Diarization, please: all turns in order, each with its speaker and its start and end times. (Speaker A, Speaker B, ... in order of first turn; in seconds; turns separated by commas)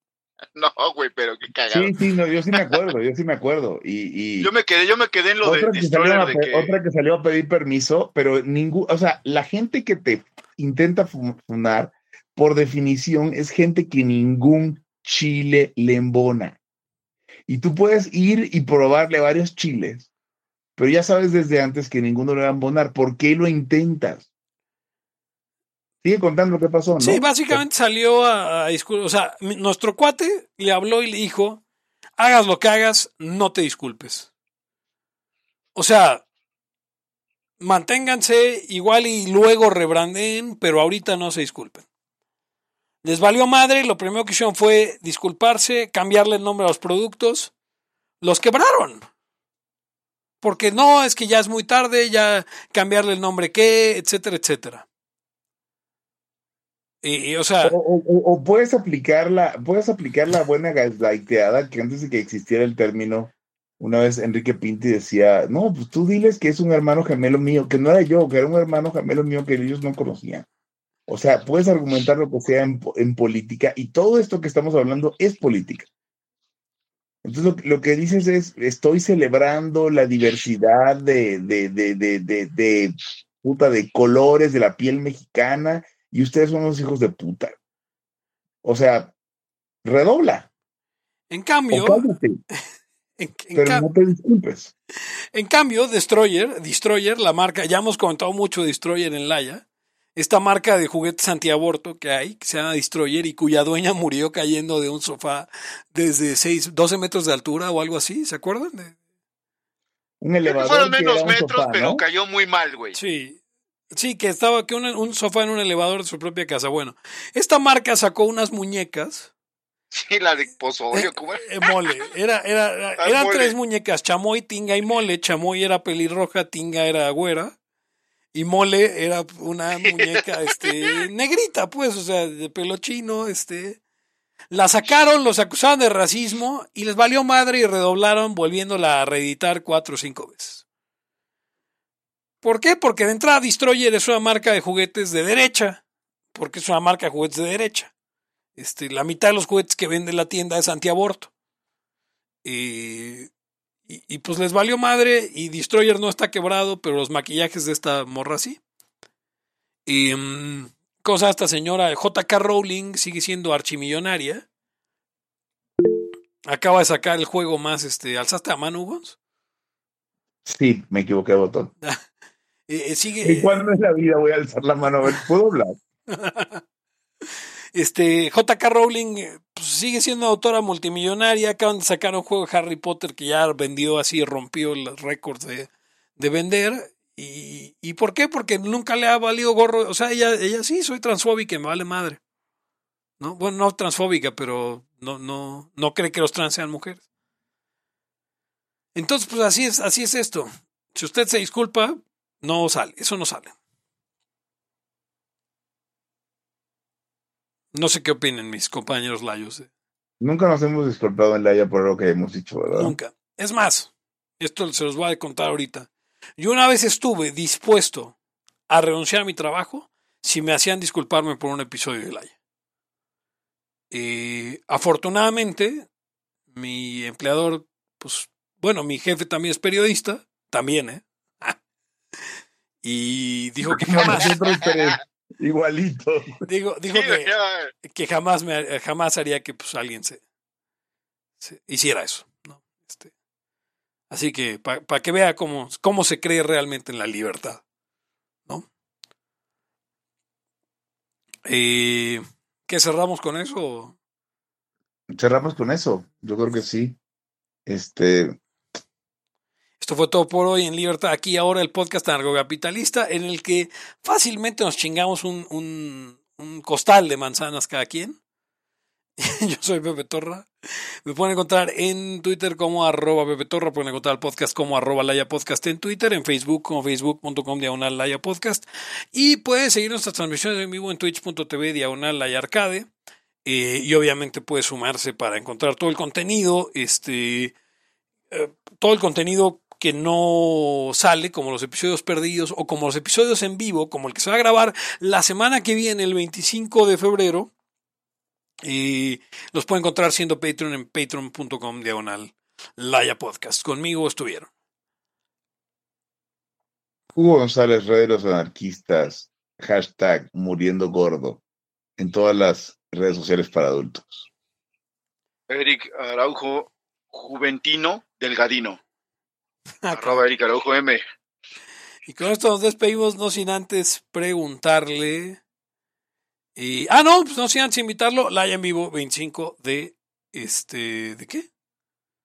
Speaker A: 0.6-1.9, Speaker B: 1.7-4.5, Speaker A: 4.4-6.7, Speaker B: 5.4-16.6, Speaker B: 17.5-20.1, Speaker B: 20.8-24.2, Speaker B: 26.0-27.6, Speaker C: 27.0-31.6, Speaker C: 32.2-34.3, Speaker C: 35.7-36.2, Speaker C: 37.6-41.9, Speaker C: 43.0-47.5, Speaker C: 48.2-49.0, Speaker C: 50.4-54.8, Speaker C: 57.0-57.8, Speaker B: 57.6-70.5, Speaker B: 71.1-75.9, Speaker B: 77.2-87.6, Speaker B: 88.6-89.1, Speaker B: 89.8-90.5, Speaker C: 91.3-92.1, Speaker B: 91.7-92.4, Speaker C: 93.2-93.9, Speaker B: 93.5-94.7, Speaker C: 95.3-99.6, Speaker C: 100.1-109.0, Speaker B: 110.2-112.0, Speaker A: 110.4-113.0, Speaker C: 112.9-113.4, Speaker C: 113.9-119.3, Speaker A: 119.9-121.7, Speaker C: 120.9-127.5, Speaker A: 123.0-123.5, Speaker C: 128.3-133.8, Speaker A: 129.8-130.1, Speaker C: 134.5-140.6, Speaker C: 142.4-145.8, Speaker C: 146.3-147.9, Speaker C: 148.6-151.3, Speaker C: 152.4-153.3, Speaker C: 153.9-158.6, Speaker C: 159.8-164.4, Speaker C: 166.4-169.2, Speaker B: 170.4-171.7, Speaker C: 172.7-173.6, Speaker B: 173.2-175.8, Speaker C: 176.1-176.6, Speaker C: 177.7-192.2, Speaker C: 193.2-197.0, Speaker C: 198.9-203.5, Speaker C: 207.7-209.7, Speaker B: 210.2-212.9, Speaker C: 212.7-218.1, Speaker C: 218.7-222.3, Speaker C: 223.9-225.9, Speaker C: 226.5-231.6, Speaker C: 232.8-234.3, Speaker B: 233.7-236.4, Speaker C: 236.4-240.2, Speaker A: 236.9-237.7, Speaker C: 241.4-243.1, Speaker C: 244.1-247.6, Speaker C: 251.4-253.9, Speaker B: 255.1-257.0, Speaker B: 257.6-258.4, Speaker C: 259.8-268.2, Speaker C: 269.2-270.5, Speaker C: 271.0-282.9, Speaker C: 283.4-287.5, Speaker C: 288.3-297.5, Speaker C: 298.6-304.5, Speaker B: 307.1-311.4, Speaker B: 312.0-314.2, Speaker A: 315.5-318.8, Speaker C: 319.8-320.2, Speaker A: 319.9-321.0, Speaker C: 322.0-325.4, Speaker C: 326.6-331.5